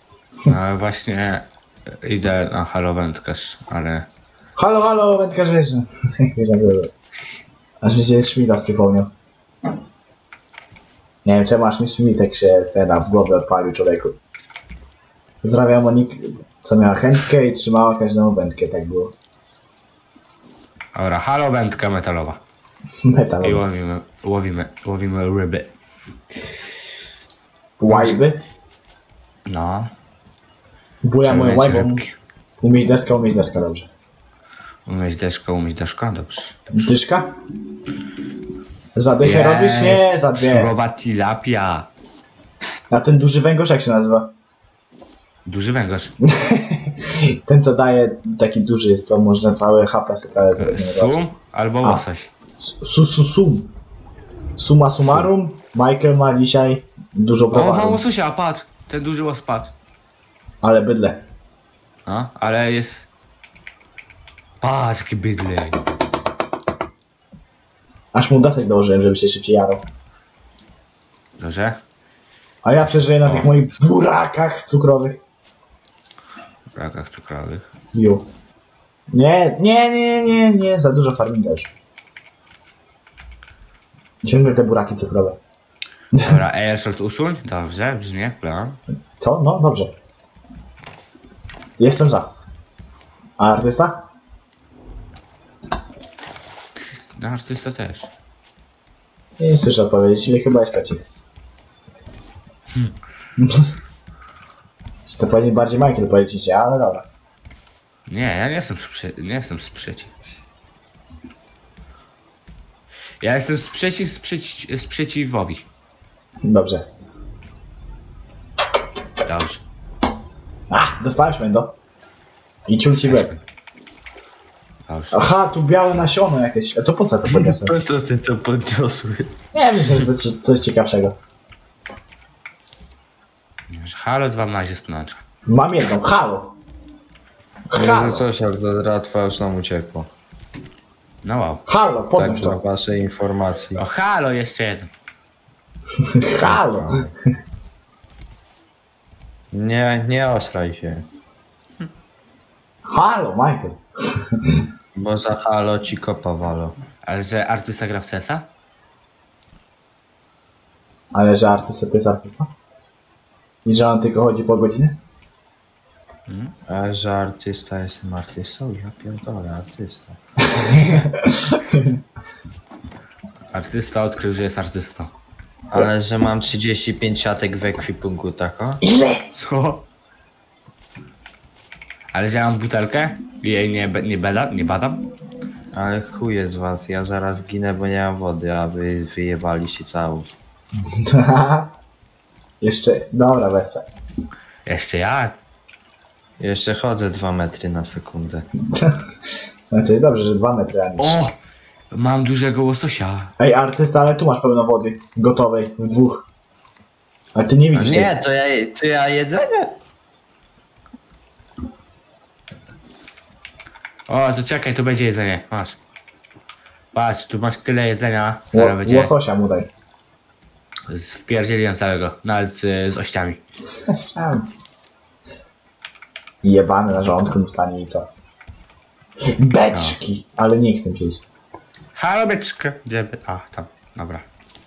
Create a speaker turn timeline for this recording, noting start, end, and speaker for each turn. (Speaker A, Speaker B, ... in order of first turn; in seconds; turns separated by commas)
Speaker A: 0.5-4.1, Speaker B: 4.6-6.9, Speaker B: 7.8-9.1, Speaker B: 11.2-14.2, Speaker B: 15.4-19.1, Speaker A: 20.9-22.4, Speaker B: 23.0-23.6, Speaker A: 23.4-25.7, Speaker B: 27.8-28.4, Speaker A: 27.9-28.2, Speaker A: 29.5-29.9, Speaker B: 31.0-32.0, Speaker A: 31.2-32.1, Speaker B: 32.6-33.9, Speaker A: 34.9-36.8, Speaker B: 36.7-37.3, Speaker B: 39.0-40.7, Speaker A: 39.2-41.9, Speaker B: 42.9-44.3, Speaker A: 45.5-46.1, Speaker B: 46.2-51.2, Speaker A: 50.6-52.3, Speaker B: 52.6-53.7, Speaker B: 54.6-58.0, Speaker A: 57.5-59.7, Speaker B: 60.6-61.2, Speaker A: 62.1-63.1, Speaker A: 64.6-65.8, Speaker B: 68.1-69.8, Speaker A: 71.4-71.8, Speaker B: 72.6-75.2, Speaker A: 73.2-73.5, Speaker A: 76.7-77.7, Speaker B: 77.9-78.3, Speaker B: 79.1-81.7, Speaker B: 84.2-85.4, Speaker B: 86.1-86.4, Speaker A: 86.2-88.8, Speaker B: 89.2-89.9, Speaker B: 91.8-92.3, Speaker B: 93.4-94.0, Speaker A: 96.9-98.1, Speaker B: 99.4-101.0, Speaker B: 103.4-103.7, Speaker B: 105.1-107.1, Speaker A: 108.1-110.1, Speaker A: 113.2-115.7, Speaker B: 116.5-116.8, Speaker A: 119.2-119.6, Speaker B: 120.7-121.8, Speaker B: 122.7-123.3, Speaker A: 123.0-123.4, Speaker A: 124.9-125.2, Speaker B: 125.1-127.8, Speaker C: 127.3-129.4, Speaker B: 129.5-131.1, Speaker A: 133.7-135.2, Speaker B: 135.5-136.6, Speaker B: 137.7-138.3, Speaker C: 137.7-140.1, Speaker A: 141.2-141.6, Speaker B: 141.7-142.6, Speaker C: 142.2-143.8, Speaker A: 143.8-144.9, Speaker B: 146.0-147.0, Speaker C: 146.4-147.1, Speaker C: 149.5-151.1, Speaker B: 152.9-154.7, Speaker C: 154.9-156.8, Speaker A: 157.0-158.5, Speaker B: 161.1-162.5, Speaker B: 163.7-165.0, Speaker A: 166.3-166.5, Speaker C: 166.7-170.2, Speaker B: 170.6-172.0, Speaker A: 170.7-171.1, Speaker A: 173.5-175.1, Speaker C: 175.7-178.8, Speaker B: 178.8-179.3, Speaker A: 179.3-179.8, Speaker A: 182.1-185.0, Speaker C: 185.7-190.3, Speaker B: 190.9-191.7, Speaker B: 192.6-193.8, Speaker A: 194.7-195.3, Speaker C: 196.4-198.5, Speaker B: 198.7-199.0, Speaker B: 199.7-201.2, Speaker A: 201.0-201.3, Speaker A: 201.9-203.3, Speaker B: 203.4-206.3, Speaker B: 207.3-208.1, Speaker C: 207.7-209.8, Speaker A: 214.1-215.8, Speaker A: 216.9-219.1, Speaker B: 218.5-219.7, Speaker A: 220.9-223.4, Speaker B: 223.7-224.5, Speaker B: 226.4-228.1, Speaker B: 229.3-231.2, Speaker A: 231.9-234.2